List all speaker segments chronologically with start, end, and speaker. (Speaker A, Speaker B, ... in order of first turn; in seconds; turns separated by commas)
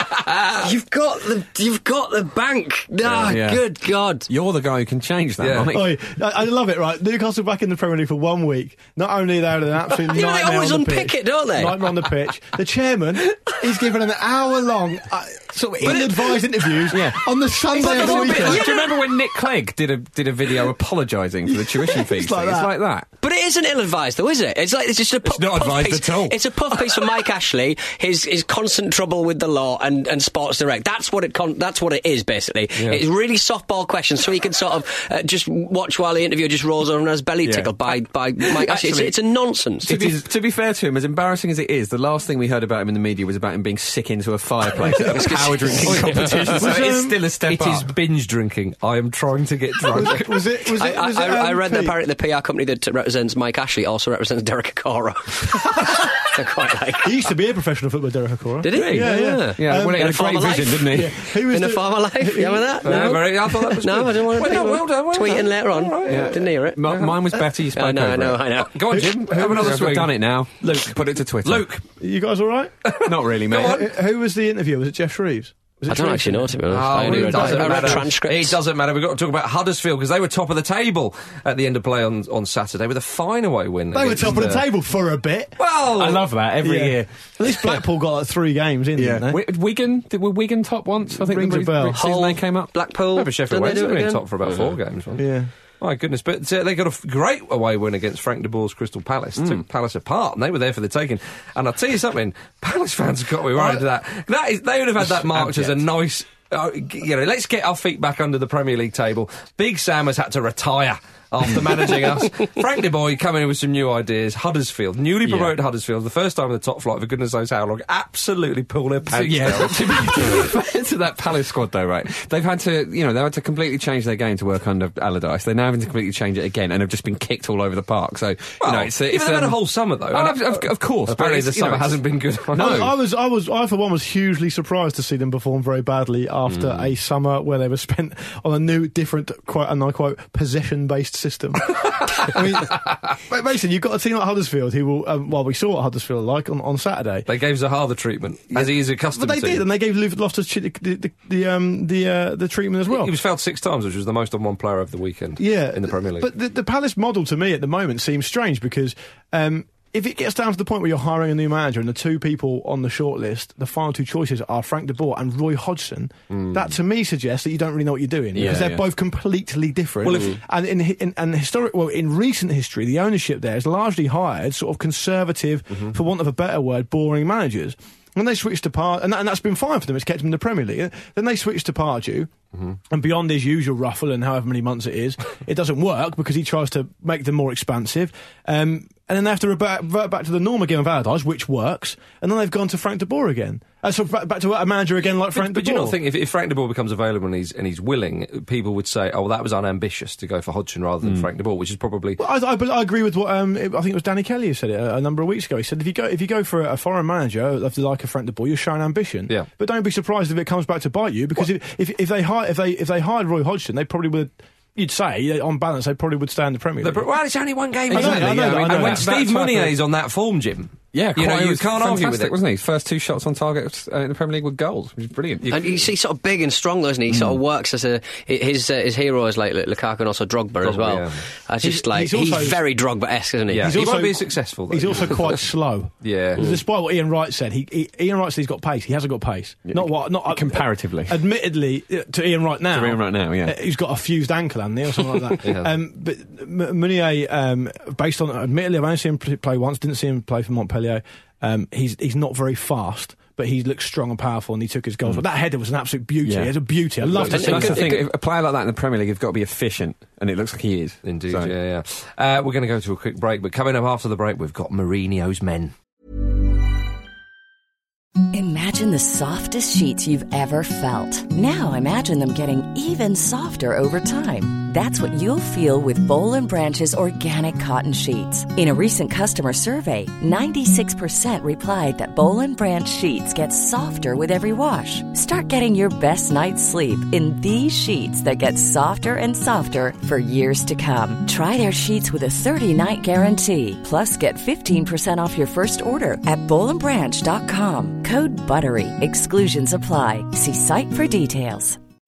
Speaker A: 0.6-4.3, Speaker B: 3.0-3.7, Speaker B: 4.2-6.0, Speaker C: 5.4-5.7, Speaker D: 5.7-18.7, Speaker A: 10.1-12.1, Speaker A: 15.8-16.4, Speaker B: 16.9-23.1, Speaker A: 17.7-18.9, Speaker D: 21.5-22.7, Speaker A: 23.2-40.2, Speaker B: 25.2-26.5, Speaker C: 32.8-33.0, Speaker B: 37.4-39.2, Speaker B: 39.8-47.9, Speaker A: 44.8-46.6, Speaker D: 46.5-47.2, Speaker C: 47.5-50.5, Speaker D: 49.9-52.0, Speaker A: 50.8-57.1, Speaker D: 57.0-63.0, Speaker A: 58.6-67.1, Speaker B: 58.7-61.2, Speaker C: 62.8-66.3, Speaker B: 66.0-71.7, Speaker C: 66.9-67.2, Speaker A: 67.7-68.8, Speaker C: 68.7-71.8, Speaker D: 69.0-69.8, Speaker D: 72.0-72.7, Speaker C: 72.8-73.9, Speaker B: 73.0-73.9, Speaker D: 73.5-78.1, Speaker A: 75.9-78.6, Speaker C: 76.7-84.7, Speaker D: 83.9-85.7, Speaker C: 85.6-86.4, Speaker B: 86.0-87.2, Speaker D: 86.6-89.4, Speaker B: 89.0-92.7, Speaker D: 91.1-92.0, Speaker A: 91.9-94.7, Speaker C: 93.1-120.5, Speaker D: 95.2-95.5, Speaker B: 99.4-99.6, Speaker D: 103.5-103.8, Speaker B: 105.0-105.8, Speaker B: 115.2-115.5, Speaker B: 119.1-132.9, Speaker C: 128.6-132.9, Speaker D: 132.5-147.3, Speaker C: 136.5-136.8, Speaker C: 147.3-149.6, Speaker D: 148.5-153.1, Speaker C: 152.9-156.3, Speaker D: 155.4-182.3, Speaker B: 166.3-166.8, Speaker B: 168.3-168.9, Speaker C: 170.0-170.4, Speaker D: 182.9-196.0, Speaker C: 195.3-202.2, Speaker B: 201.0-201.3, Speaker D: 202.2-217.1, Speaker C: 216.8-222.3, Speaker D: 217.9-219.2, Speaker B: 217.9-219.8, Speaker B: 220.9-225.5, Speaker C: 225.4-225.9, Speaker A: 225.5-233.8, Speaker C: 230.6-231.2, Speaker D: 231.6-232.6, Speaker C: 233.5-235.4, Speaker D: 233.6-257.8, Speaker C: 236.0-236.5, Speaker B: 239.7-241.2, Speaker B: 242.7-243.6, Speaker C: 245.4-245.7, Speaker B: 256.2-261.5, Speaker C: 257.1-257.8, Speaker A: 257.3-258.0, Speaker C: 261.0-265.7, Speaker E: 268.3-301.8